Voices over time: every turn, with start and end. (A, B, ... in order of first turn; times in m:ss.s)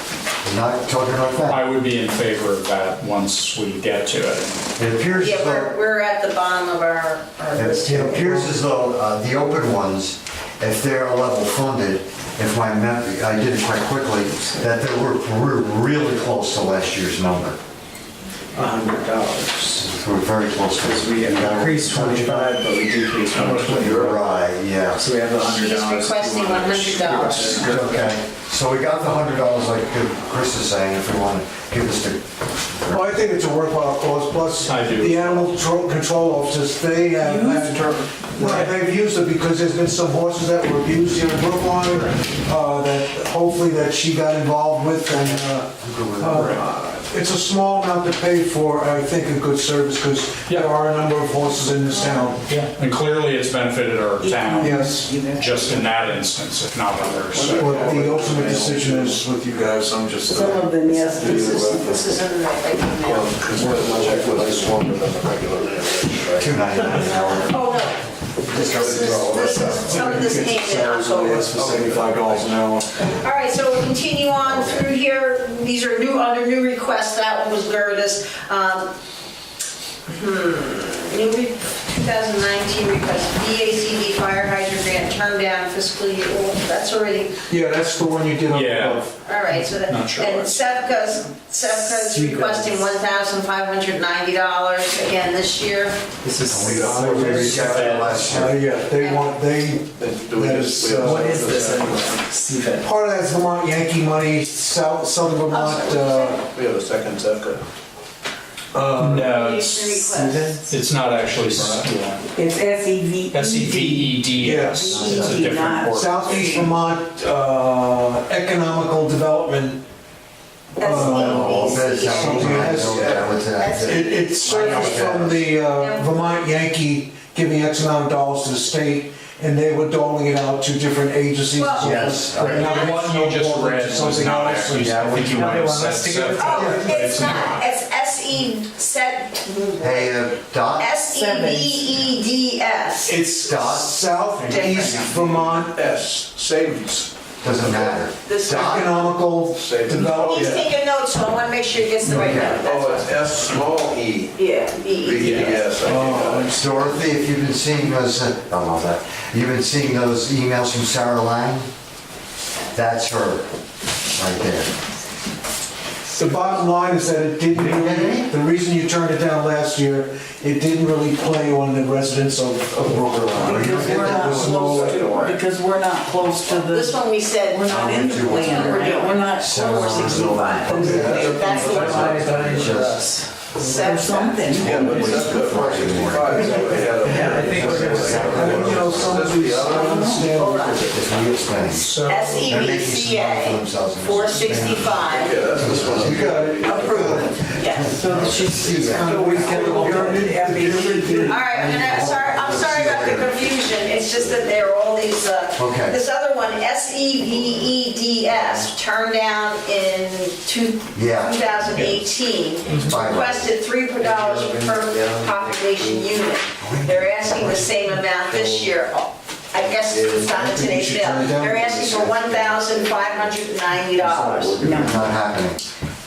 0:00.4-0:01.6 A
0:01.4-0:04.6 B
0:04.8-0:05.8 A
0:05.1-0:08.6 C
0:07.6-0:17.6 A
0:18.6-0:19.9 D
0:19.8-0:22.6 A
0:20.8-0:24.2 D
0:23.4-0:24.4 E
0:23.7-0:25.1 A
0:24.9-0:28.1 D
0:25.4-0:27.7 C
0:27.6-0:32.2 A
0:32.8-0:33.1 A
0:32.9-0:52.4 F
0:34.6-0:35.5 B
0:37.2-0:37.9 G
0:38.4-0:38.7 B
0:41.9-0:42.2 B
0:45.1-0:46.6 A
0:46.3-0:46.6 B
0:52.0-0:52.3 G
0:52.4-0:58.0 B
0:54.2-0:56.0 G
0:54.6-0:55.2 F
0:57.3-0:59.2 E
0:57.4-1:02.0 F
1:00.3-1:02.1 G
1:01.2-1:03.3 C
1:03.0-1:06.8 E
1:03.6-1:04.7 D
1:03.7-1:04.6 F
1:06.4-1:07.6 A
1:07.1-1:11.6 C
1:08.5-1:09.7 A
1:08.6-1:10.4 E
1:09.4-1:12.9 F
1:11.4-1:12.3 E
1:11.4-1:12.1 D
1:13.0-1:18.9 C
1:14.4-1:14.9 A
1:20.1-1:27.4 C
1:27.5-1:29.1 F
1:28.5-1:30.5 B
1:29.2-1:36.0 C
1:32.1-1:32.8 D
1:36.2-1:37.8 D
1:36.4-1:38.6 A
1:36.5-1:37.4 E
1:36.7-1:41.3 F
1:37.5-1:38.3 B
1:39.0-1:39.3 C
1:40.0-1:42.2 E
1:41.0-1:42.9 D
1:42.8-1:46.4 F
1:45.5-1:46.4 C
1:46.4-1:47.6 E
1:48.7-1:49.6 F
1:49.0-1:52.3 B
1:49.3-1:50.7 C
1:50.2-1:50.5 F
1:51.5-1:51.9 E
1:52.3-1:56.7 G
1:53.3-1:56.7 B
1:54.4-1:54.9 F
1:54.8-1:55.5 A
1:55.9-1:59.8 F
2:00.8-2:06.1 C
2:00.8-2:17.3 F
2:00.9-2:05.5 A
2:11.6-2:13.0 C
2:11.8-2:12.8 A
2:12.3-2:17.6 B
2:14.7-2:16.7 D
2:16.4-2:20.2 C
2:19.8-2:21.0 A
2:20.8-2:23.2 C
2:21.1-2:22.0 G
2:23.0-2:26.6 F
2:23.4-2:24.0 A
2:24.4-2:25.6 B
2:24.5-2:25.0 C
2:26.1-2:27.1 E
2:27.4-2:28.9 A
2:27.6-2:30.6 F
2:28.2-2:29.1 C
2:29.5-2:30.6 E
2:30.0-2:33.1 C
2:32.0-2:32.6 A
2:32.6-2:34.3 E
2:34.4-2:35.7 C
2:35.0-2:36.7 E
2:35.2-2:35.7 B
2:35.8-2:37.0 F
2:36.5-2:41.7 A
2:42.7-2:43.5 A
2:44.2-2:44.7 A
2:46.1-2:55.0 F
2:47.5-2:48.3 A
2:52.8-2:54.6 A
2:53.4-3:04.8 G
2:54.0-2:55.4 E
2:56.6-3:02.4 C
2:57.7-2:58.8 A
2:59.4-3:01.2 A
3:00.9-3:02.7 E
3:01.3-3:03.1 D
3:01.7-3:03.1 A
3:03.6-3:04.7 C
3:04.5-3:10.2 E
3:04.5-3:09.4 A
3:04.8-3:05.1 D
3:06.4-3:09.0 D
3:07.8-3:10.9 F
3:09.7-3:11.3 C
3:09.8-3:10.3 G
3:10.9-3:19.9 A
3:11.7-3:12.5 B
3:12.0-3:15.6 C
3:15.1-3:16.9 E
3:16.1-3:17.4 F
3:16.6-3:18.0 C
3:17.8-3:21.4 G
3:18.0-3:23.1 F
3:21.2-3:44.6 C
3:21.6-3:23.3 A
3:25.6-3:26.0 A
3:28.3-3:28.7 A
3:30.9-3:32.0 A
3:32.7-3:33.5 A
3:34.0-3:36.1 D
3:36.6-3:37.7 A
3:38.3-3:38.7 D
3:39.9-3:40.4 D
3:40.3-3:42.4 F
3:42.4-3:43.3 D
3:44.1-3:44.9 D
3:44.6-3:45.1 G
3:44.6-3:45.6 A